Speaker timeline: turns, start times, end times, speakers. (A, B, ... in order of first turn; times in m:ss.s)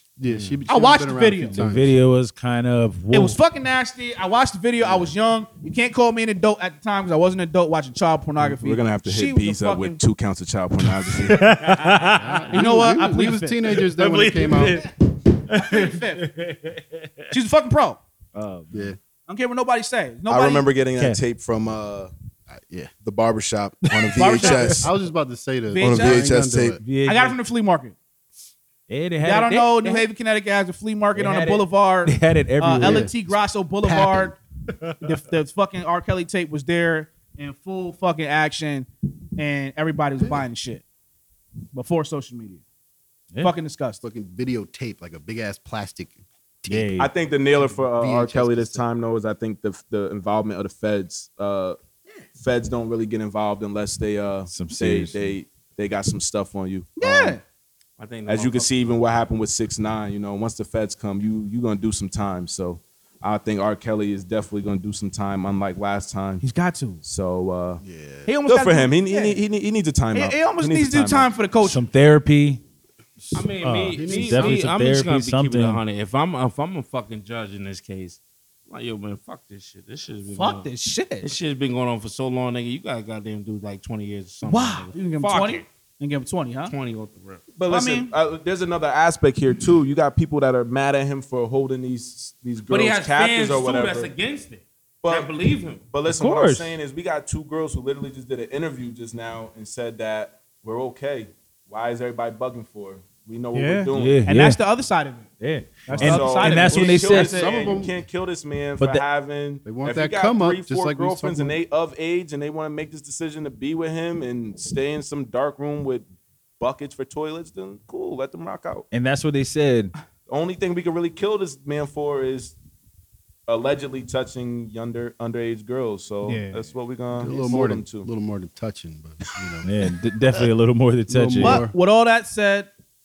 0:00.2-0:02.0 A
0:00.3-0:00.6 B
0:00.7-0:01.6 C
0:01.5-0:03.4 D
0:03.1-0:10.0 C
0:08.4-0:11.6 E
0:11.0-0:12.7 D
0:12.1-0:14.8 A
0:12.5-0:13.6 C
0:13.8-0:17.3 D
0:15.5-0:16.3 C
0:17.3-0:18.0 C
0:18.4-0:19.0 D
0:18.7-0:19.0 A
0:19.3-0:20.7 C
0:20.3-0:22.1 E
0:22.5-0:22.9 A
0:23.0-0:24.9 E
0:23.9-0:24.8 D
0:24.2-0:24.8 C
0:24.7-0:26.8 A
0:25.7-0:26.2 C
0:25.8-0:26.8 E
0:26.8-0:27.4 D
0:27.0-0:28.0 C
0:28.9-0:30.1 D
0:29.2-0:34.4 C
0:31.1-0:33.1 D
0:32.7-0:33.1 A
0:33.8-0:34.4 A
0:34.8-0:35.1 D
0:35.0-0:40.8 C
0:41.7-0:42.6 C
0:43.4-0:44.0 C
0:44.0-0:47.0 A
0:46.7-0:47.1 D
0:47.0-0:51.8 E
0:47.6-0:48.9 A
0:52.4-0:57.4 E
0:54.5-0:55.4 D
0:57.0-0:57.4 C
0:58.0-0:59.0 B
0:58.3-1:06.4 E
1:06.4-1:07.0 C
1:07.0-1:07.8 E
1:07.8-1:08.3 A
1:08.3-1:09.4 C
1:08.5-1:11.3 E
1:10.1-1:11.8 C
1:11.6-1:12.6 D
1:13.2-1:14.7 A
1:13.3-1:20.7 B
1:13.6-1:15.8 D
1:20.4-1:21.3 C
1:21.2-1:25.7 B
1:24.5-1:26.7 C
1:26.7-1:27.4 B
1:27.5-1:34.1 E
1:27.7-1:28.1 C
1:32.7-1:35.8 B
1:35.0-1:35.3 E
1:35.8-1:44.3 E
1:36.1-1:36.8 D
1:43.5-1:45.3 C
1:43.9-1:44.6 D
1:45.4-1:47.5 D
1:45.8-1:47.2 C
1:45.9-1:56.1 E
1:47.0-1:48.0 A
1:48.8-1:49.0 D
1:49.6-1:51.6 A
1:56.6-1:58.9 E
1:58.9-1:59.9 D
2:00.3-2:02.6 E
2:03.5-2:08.1 E
2:06.2-2:06.7 C
2:07.1-2:09.7 A
2:09.6-2:11.6 D
2:11.1-2:11.7 A
2:11.4-2:12.7 C